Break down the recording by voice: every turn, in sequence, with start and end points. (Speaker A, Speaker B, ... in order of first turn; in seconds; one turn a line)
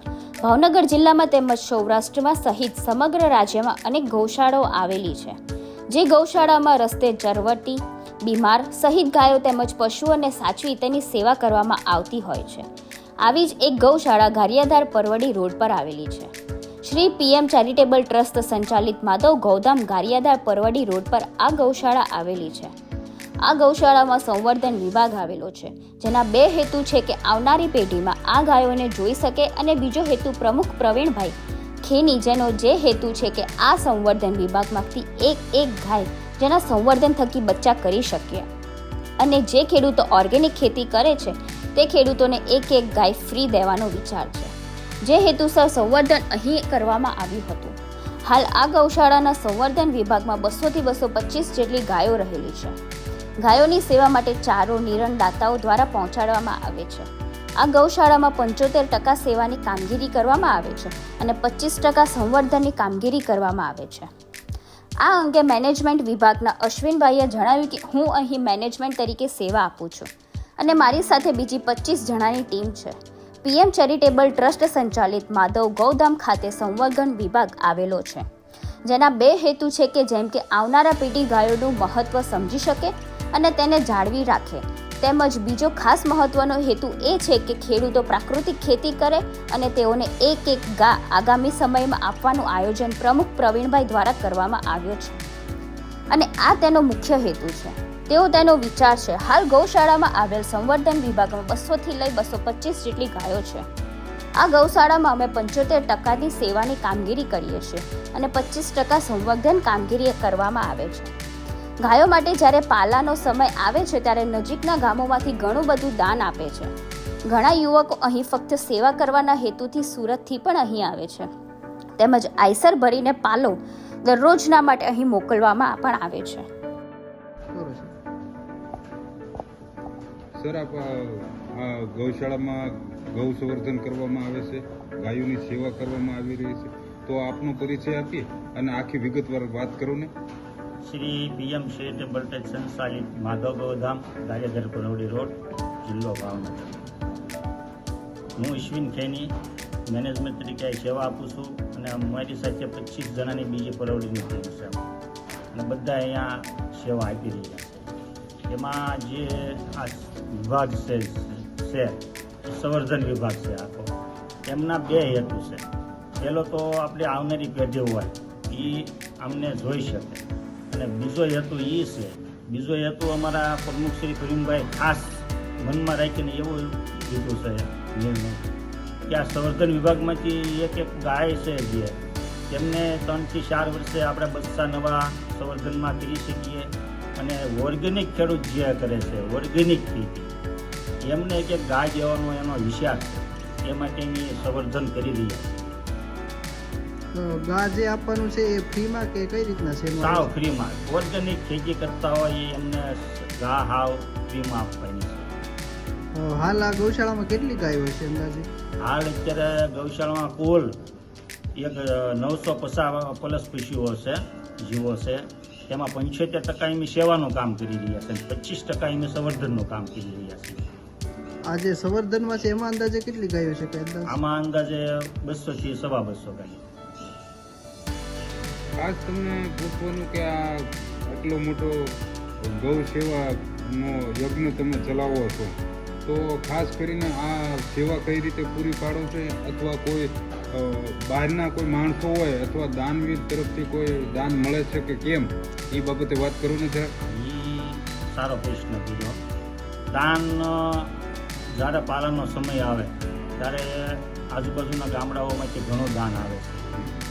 Speaker A: 0.4-5.4
Speaker A: 5.9-12.7
Speaker A: 13.2-16.3
Speaker A: 16.8-22.7
Speaker A: 23.4-38.5
Speaker A: 39.2-52.8
Speaker A: 53.4-57.1
Speaker A: 57.6-64.1
Speaker A: 65.0-78.3
Speaker A: 78.8-95.2
Speaker A: 96.1-103.7
Speaker A: 104.4-111.1
Speaker A: 111.8-116.7
Speaker A: 117.3-121.3
Speaker A: 122.0-126.5
Speaker B: 127.5-127.9
Speaker C: 130.4-140.1
Speaker D: 140.8-146.8
Speaker D: 148.4-149.3
Speaker D: 149.9-154.9
Speaker D: 155.5-157.9
Speaker D: 158.5-163.9
Speaker D: 164.4-165.6
Speaker D: 166.2-178.5
Speaker D: 179.1-182.0
Speaker D: 182.5-190.3
Speaker D: 191.0-195.8
Speaker B: 197.1-200.3
Speaker D: 200.0-205.3
Speaker B: 206.2-208.5
Speaker D: 208.8-210.8
Speaker D: 211.6-220.6
Speaker B: 221.5-224.2
Speaker D: 224.1-226.6
Speaker C: 228.8-246.9
Speaker D: 247.1-249.2
Speaker D: 249.9-250.9
Speaker D: 251.5-256.7